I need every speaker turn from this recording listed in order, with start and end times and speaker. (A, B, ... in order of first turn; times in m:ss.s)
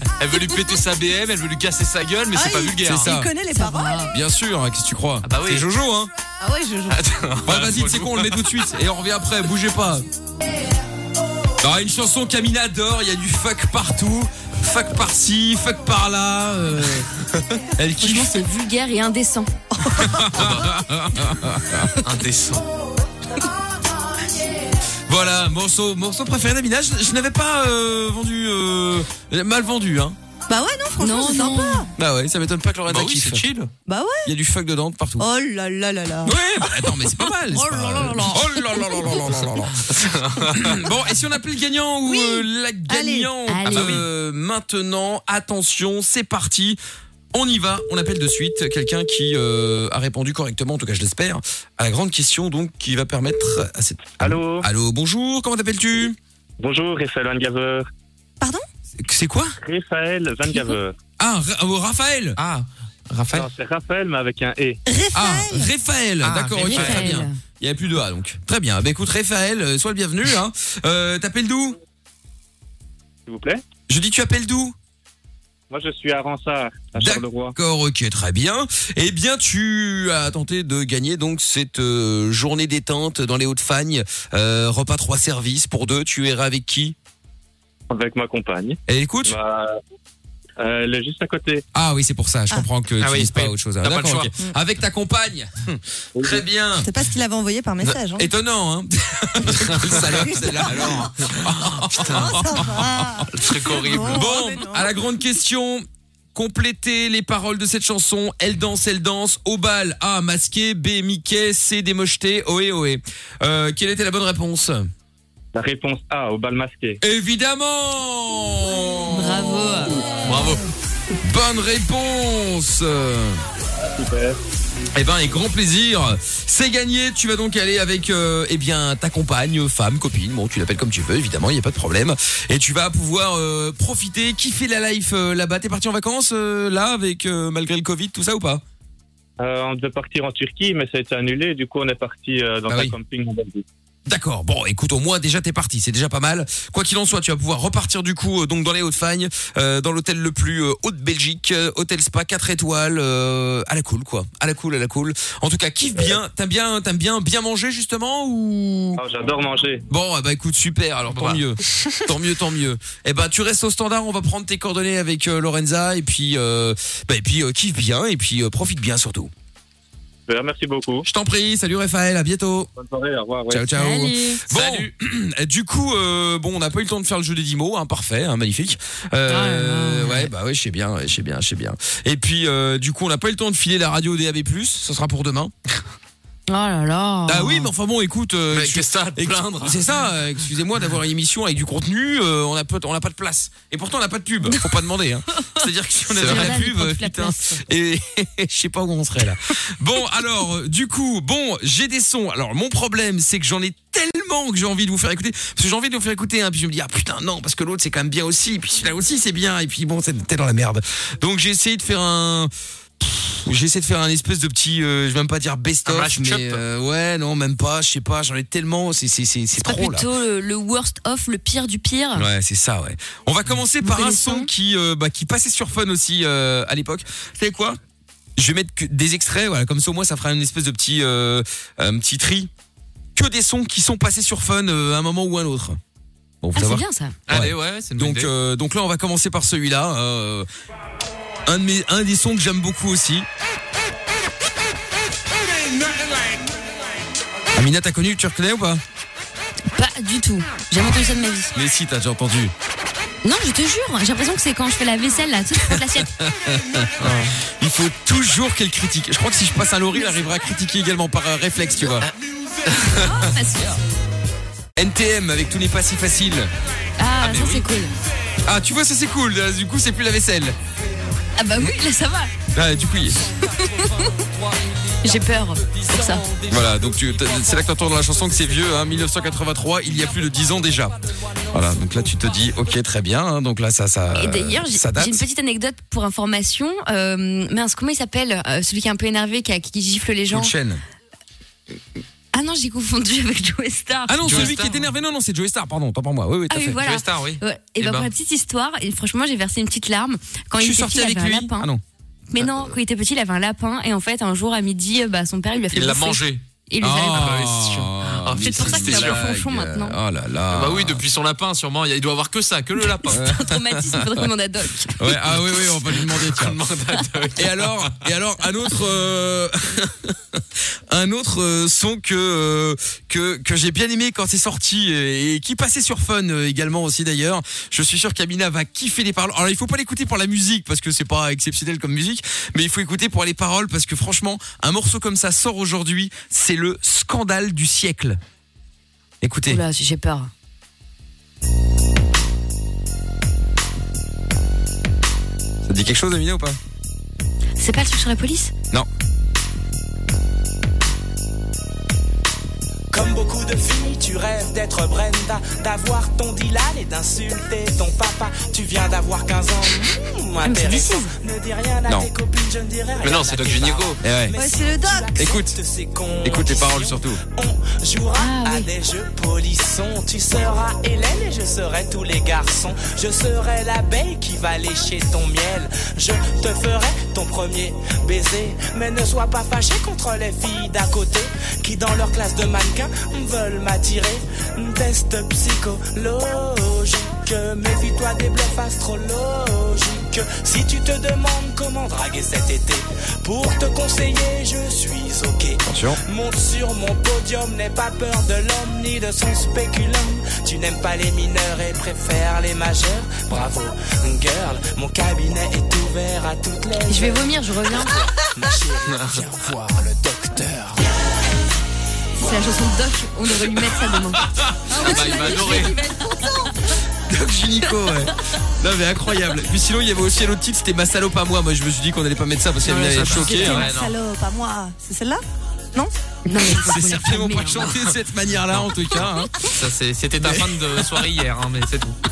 0:00.2-0:03.1 A
0:02.3-0:04.1 B
0:02.8-0:03.3 C
0:03.5-0:04.1 D
0:04.1-0:06.1 C
0:05.2-0:05.7 A
0:06.4-0:07.0 B
0:06.9-0:08.5 A
0:07.4-0:10.0 C
0:11.6-0:17.1 C
0:17.8-0:18.4 C
0:18.0-0:19.5 D
0:19.8-0:20.3 B
0:20.0-0:22.0 C
0:20.3-0:20.8 A
0:22.0-0:22.7 A
0:25.1-0:30.2 C
0:30.5-0:31.9 B
0:31.0-0:31.9 D
0:32.0-0:33.5 C
0:32.9-0:33.7 A
0:33.9-0:34.3 B
0:34.2-0:35.3 C
0:35.2-0:36.6 B
0:36.2-0:46.8 C
0:37.5-0:39.1 D
0:39.8-0:40.7 A
0:42.1-0:43.3 B
0:43.5-0:44.0 D
0:43.6-0:44.0 A
0:47.3-0:56.2 C
0:54.2-0:54.7 E
0:56.6-0:57.9 E
0:58.4-0:58.6 B
0:59.0-0:59.6 C
0:59.6-1:01.0 E
1:01.2-1:02.4 C
1:02.4-1:03.5 A
1:03.3-1:04.8 E
1:04.9-1:05.7 B
1:05.2-1:11.8 C
1:06.2-1:07.1 A
1:06.6-1:07.4 D
1:13.3-1:13.6 E
1:13.9-1:14.8 C
1:15.7-1:17.5 E
1:17.0-1:27.0 C
1:27.9-1:29.8 E
1:28.9-1:29.4 C
1:30.6-1:31.6 E
1:31.7-1:36.9 C
1:33.0-1:34.3 A
1:36.8-1:38.3 B
1:38.2-1:43.2 C
1:39.4-1:44.3 A
1:39.8-1:41.3 B
1:42.0-1:44.9 B
1:43.9-1:54.9 C
1:55.5-1:57.0 E
1:57.0-1:59.9 C
1:59.1-2:00.0 D
2:00.2-2:00.6 A
2:01.2-2:03.4 C
2:04.0-2:04.4 E
2:04.9-2:18.6 C
2:19.4-2:23.6 E
2:22.7-2:23.0 C
2:24.1-2:39.0 C
2:39.0-2:39.8 E
2:39.9-2:49.3 C
2:41.1-2:42.1 A
2:50.3-2:51.1 E
2:51.0-2:52.7 C
2:52.8-2:53.7 E
2:53.5-3:05.5 C
2:53.7-2:54.4 D
2:54.5-2:54.9 A
2:59.3-3:00.3 D
3:06.5-3:07.7 D
3:07.3-3:40.1 C
3:08.5-3:10.0 A
3:15.3-3:15.6 D
3:16.2-3:17.6 D
3:16.2-3:16.6 A
3:35.9-3:36.6 A
3:39.6-3:42.3 D
3:42.2-3:47.8 C
3:43.8-3:44.5 D
3:48.4-3:52.5 C
3:53.2-3:55.8 C
3:56.4-4:00.5 C
3:56.6-3:57.2 D
3:57.3-3:58.3 A
4:01.5-4:03.3 C
4:07.6-4:08.8 C
4:09.7-4:11.5 D
4:11.5-4:12.5 C
4:13.2-4:16.1 D
4:15.7-4:22.1 C
4:17.0-4:17.3 A
4:22.7-4:23.0 A
4:22.8-4:23.8 D
4:24.8-4:26.5 C
4:27.0-4:27.9 D
4:27.2-4:27.6 A
4:28.4-4:30.6 C
4:31.4-4:32.3 D
4:32.5-4:33.2 C
4:33.6-4:34.1 D
4:35.0-4:36.3 D
4:35.9-4:37.4 A
4:36.5-4:41.0 C
4:41.5-4:45.2 C
4:44.1-4:50.5 D
4:50.3-4:50.8 C
4:52.3-4:54.6 D
4:54.1-4:56.8 C
4:54.2-4:54.9 A
4:56.5-5:01.7 D
4:56.8-4:58.1 A
5:00.6-5:01.8 C
5:02.3-5:07.3 D
5:02.4-5:02.8 C
5:05.7-5:06.4 A
5:06.8-5:11.0 C
5:07.0-5:09.2 A
5:08.4-5:10.0 D
5:10.5-5:13.3 A
5:13.0-5:15.1 D
5:13.1-5:14.2 C
5:15.0-5:16.6 C
5:15.3-5:17.9 A
5:17.4-5:38.2 C
5:39.2-5:39.6 C
5:39.5-5:40.3 D
5:45.7-5:46.6 C
5:47.6-5:48.5 D
5:52.9-6:50.9 F
6:00.4-6:01.1 D
6:03.0-6:04.0 A
6:04.0-6:04.4 C
6:04.3-6:05.2 B
6:05.2-6:05.6 C
6:06.2-6:07.2 C
6:08.2-6:08.7 D
6:35.6-6:36.0 C
6:46.9-6:48.0 D
6:48.9-6:49.2 A
6:52.2-6:56.5 D
6:54.7-6:56.7 B
6:54.7-6:55.8 A
6:57.1-7:03.6 C
7:02.6-7:03.9 A
7:03.0-7:03.7 D
7:03.4-7:05.2 B
7:06.3-7:07.7 D
7:06.4-7:09.5 C
7:09.4-7:12.0 A
7:10.2-7:10.8 C